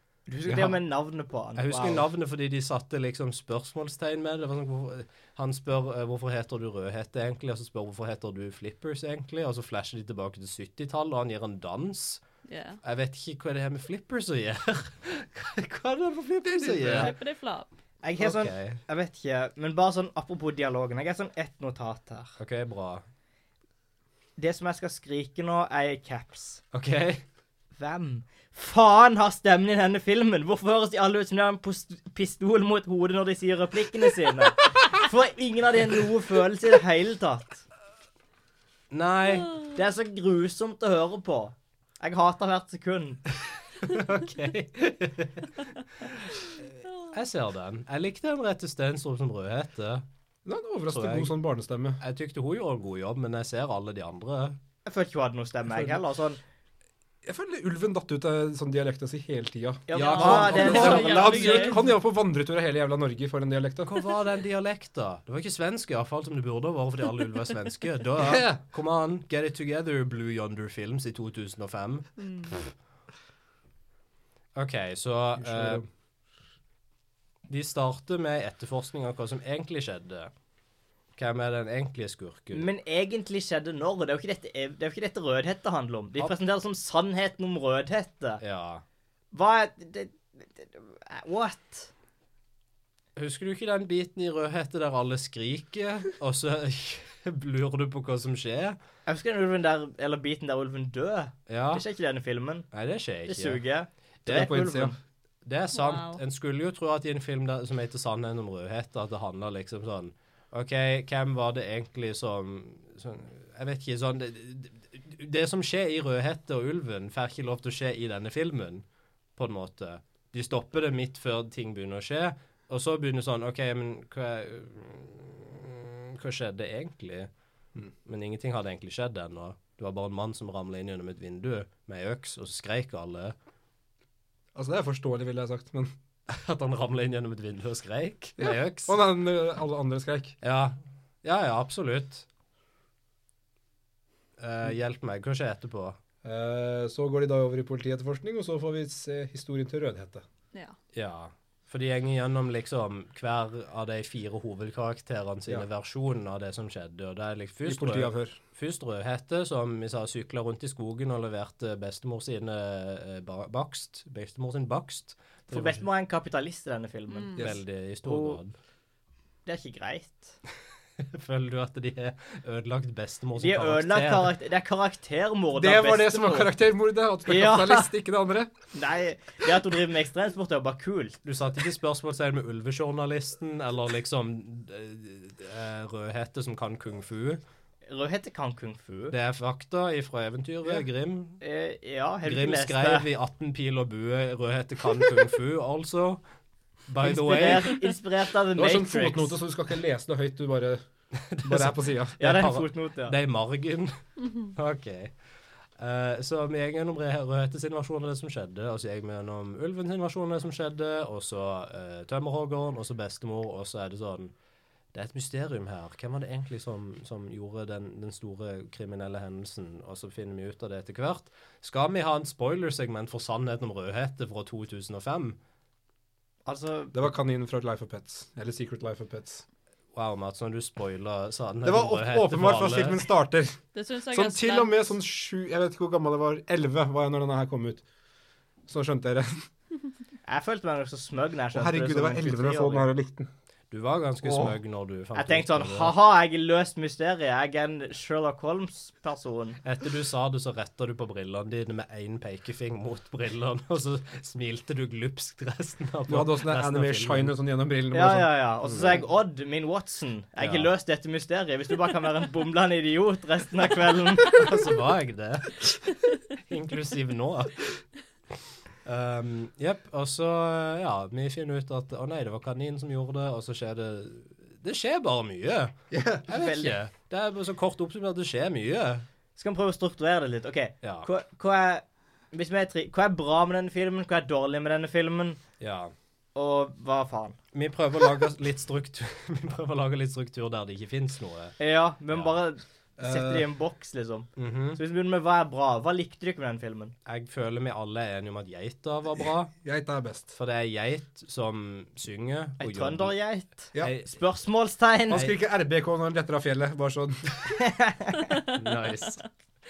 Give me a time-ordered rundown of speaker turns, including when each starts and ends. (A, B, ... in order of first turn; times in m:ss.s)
0:00.3-0:02.1 A
0:01.6-0:12.2 B
0:12.5-0:12.8 C
0:12.8-0:17.1 B
0:16.5-0:17.1 D
0:16.9-0:17.7 C
0:18.0-0:22.3 A
0:18.2-0:18.8 B
0:22.4-0:23.0 B
0:24.4-0:26.6 A
0:26.7-0:27.2 B
0:27.8-0:37.6 A
0:38.9-0:39.5 B
0:39.8-0:43.2 A
0:43.8-0:46.5 B
0:47.1-0:50.1 B
0:50.4-0:52.0 D
0:50.9-0:51.4 B
0:52.0-0:54.6 B
0:54.8-0:56.4 A
0:55.7-0:56.0 B
0:57.2-1:04.0 D
0:59.9-1:01.8 A
1:00.0-1:01.9 C
1:00.1-1:01.1 B
1:03.8-1:12.1 B
1:08.2-1:08.6 D
1:12.2-1:12.5 C
1:14.6-1:15.8 B
1:15.4-1:15.9 D
1:17.5-1:20.3 B
1:21.2-1:22.7 B
1:22.5-1:28.4 A
1:28.4-1:28.8 B
1:29.3-1:31.9 A
1:33.2-1:38.8 B
1:39.1-1:42.7 A
1:41.5-1:41.8 B
1:42.7-1:43.6 B
1:43.3-1:45.0 A
1:44.3-1:45.0 D
1:45.4-1:58.8 B
1:45.7-1:46.2 C
1:59.4-2:07.3 B
2:08.0-2:13.4 B
2:14.6-2:15.9 D
2:16.3-2:19.0 B
2:18.4-2:20.4 D
2:20.4-2:22.3 B
2:24.4-2:26.0 B
2:26.2-2:30.2 D
2:30.9-2:45.8 B
2:37.7-2:38.4 D
2:45.5-2:47.5 A
2:47.1-2:47.4 C
2:47.4-2:48.6 B
2:48.0-2:48.4 A
2:49.5-2:50.4 A
2:51.0-2:54.3 B
2:53.4-2:56.5 A
2:55.5-2:58.5 D
2:57.3-2:57.9 A
2:58.7-3:01.2 A
3:01.2-3:07.4 B
3:07.9-3:09.1 A
3:09.1-3:11.4 B
3:11.4-3:13.1 A
3:12.2-3:16.2 B
3:16.9-3:17.8 B
3:17.0-3:19.4 A
3:18.6-3:20.8 D
3:21.1-3:25.1 B
3:21.4-3:22.2 D
3:22.2-3:23.2 A
3:25.8-3:34.3 B
3:34.9-3:45.4 B
3:46.4-3:47.0 A
3:46.9-3:49.4 D
3:49.9-3:53.0 B
3:51.6-3:53.6 D
3:53.7-3:54.9 C
3:54.1-3:57.8 D
3:58.7-3:59.5 D
4:00.2-4:02.9 A
4:01.5-4:03.3 D
4:03.7-4:05.9 B
4:04.2-4:04.5 D
4:05.2-4:09.6 A
4:09.6-4:17.3 B
4:16.1-4:18.3 D
4:17.9-4:24.5 A
4:18.6-4:19.0 B
4:20.4-4:20.7 B
4:24.3-4:25.8 B
4:26.4-4:27.7 B
4:28.8-4:39.1 B
4:35.9-4:36.2 D
4:36.3-4:36.8 A
4:39.4-4:45.4 A
4:40.8-4:41.1 B
4:45.6-4:45.9 B
4:46.4-4:47.4 A
4:47.5-4:51.6 B
4:51.6-4:56.9 A
4:52.1-4:52.4 B
4:53.0-4:53.5 D
4:54.4-4:54.8 B
4:57.1-4:59.5 B
4:59.6-5:00.3 D
5:00.3-5:03.2 B
5:02.6-5:05.3 A
5:03.8-5:04.1 B
5:05.1-5:07.4 D
5:07.5-5:08.3 A
5:08.5-5:09.2 B